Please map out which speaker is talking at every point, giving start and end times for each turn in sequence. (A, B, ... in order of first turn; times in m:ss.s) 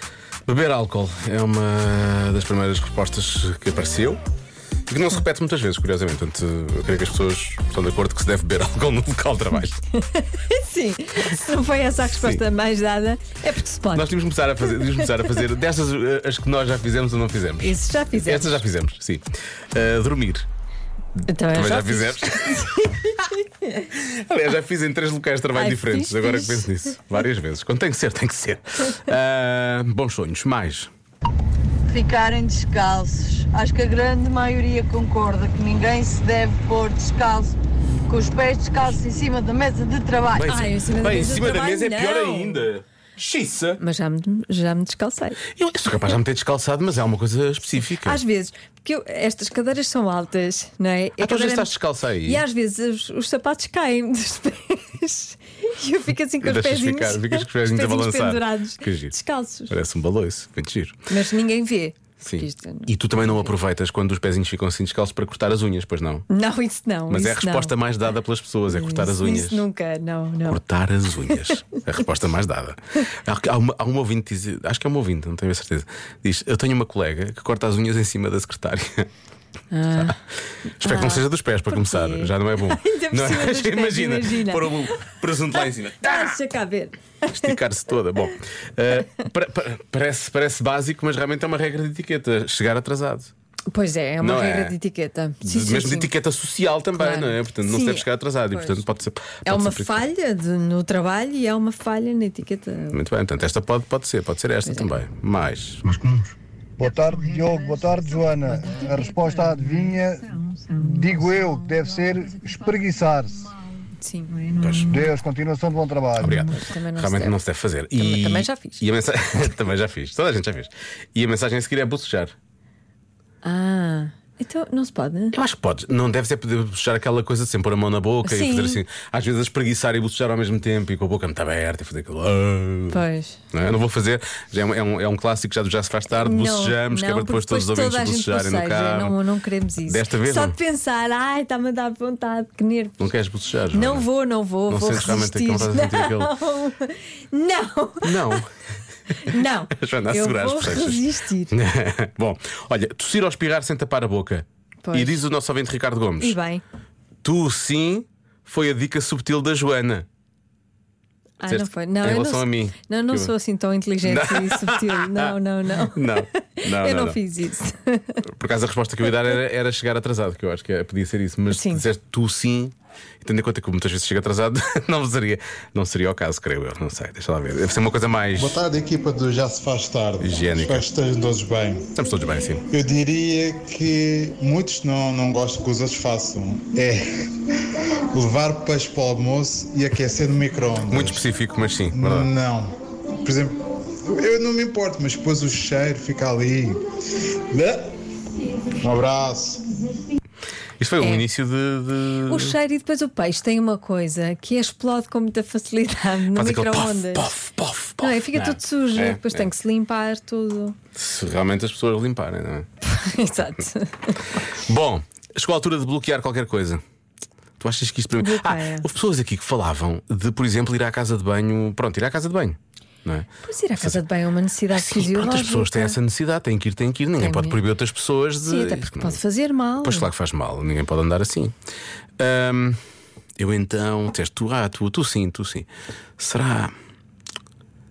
0:00.5-0:04.2 A
0:04.9-0:09.8 A
0:09.9-0:15.4 B
0:12.1-0:12.4 A
0:14.0-0:20.5 A
0:17.6-0:18.6 B
0:21.3-0:23.9 B
0:21.5-0:22.8 A
0:23.9-0:30.9 A
0:25.5-0:27.0 B
0:31.9-0:37.6 C
0:38.1-0:40.5 C
0:40.3-0:43.8 A
0:40.4-0:42.7 B
0:43.8-0:45.4 B
0:45.5-0:48.2 A
0:47.9-0:51.7 B
0:51.2-0:52.4 A
0:52.2-0:59.8 B
0:56.4-0:59.1 A
0:59.7-1:01.0 A
1:01.1-1:03.6 B
1:02.3-1:06.3 A
1:06.3-1:07.8 B
1:07.1-1:09.6 A
1:08.7-1:10.6 B
1:10.5-1:19.1 A
1:11.2-1:11.6 B
1:19.7-1:20.2 B
1:20.8-1:26.4 A
1:20.8-1:27.6 B
1:27.3-1:33.3 A
1:33.7-1:36.1 B
1:34.2-1:34.8 A
1:35.4-1:40.0 A
1:37.0-1:38.8 B
1:39.4-1:43.0 B
1:42.9-1:45.9 A
1:44.7-1:44.9 B
1:46.0-1:46.3 D
1:46.8-1:50.3 D
1:46.8-1:55.1 B
1:50.8-1:53.5 D
1:54.6-1:55.0 A
1:54.9-1:56.4 D
1:56.2-1:57.4 B
1:56.2-2:02.3 A
1:58.0-1:58.8 B
2:03.4-2:05.4 B
2:05.3-2:13.0 A
2:08.2-2:08.8 B
2:12.9-2:13.4 B
2:13.5-2:19.2 A
2:16.1-2:23.1 B
2:19.8-2:20.6 A
2:23.0-2:24.1 A
2:23.7-2:28.4 B
2:24.7-2:26.3 A
2:28.0-2:28.5 A
2:29.1-2:36.4 A
2:29.2-2:31.6 B
2:34.8-2:35.2 B
2:36.2-2:36.6 B
2:37.2-2:40.1 A
2:41.4-2:48.2 B
2:41.5-2:43.3 A
2:44.0-2:47.2 A
2:48.3-2:58.6 A
2:51.5-2:51.8 B
2:58.4-3:01.9 E
3:00.2-3:00.9 A
3:01.9-3:02.7 A
3:02.7-3:11.3 E
3:10.9-3:12.3 A
3:11.9-3:16.8 E
3:17.5-3:17.9 E
3:18.7-3:19.8 E
3:20.8-3:22.6 A
3:22.3-3:27.3 B
3:26.3-3:29.5 A
3:28.0-3:30.8 B
3:31.0-3:32.7 A
3:32.8-3:34.4 B
3:34.6-3:36.8 A
3:37.6-3:43.3 A
3:38.2-3:38.9 B
3:43.4-3:46.0 B
3:44.7-3:49.2 A
3:47.2-3:47.6 B
3:48.4-3:50.1 B
3:49.8-3:51.5 A
3:52.2-3:52.8 A
3:53.4-3:55.7 A
3:56.2-3:56.7 A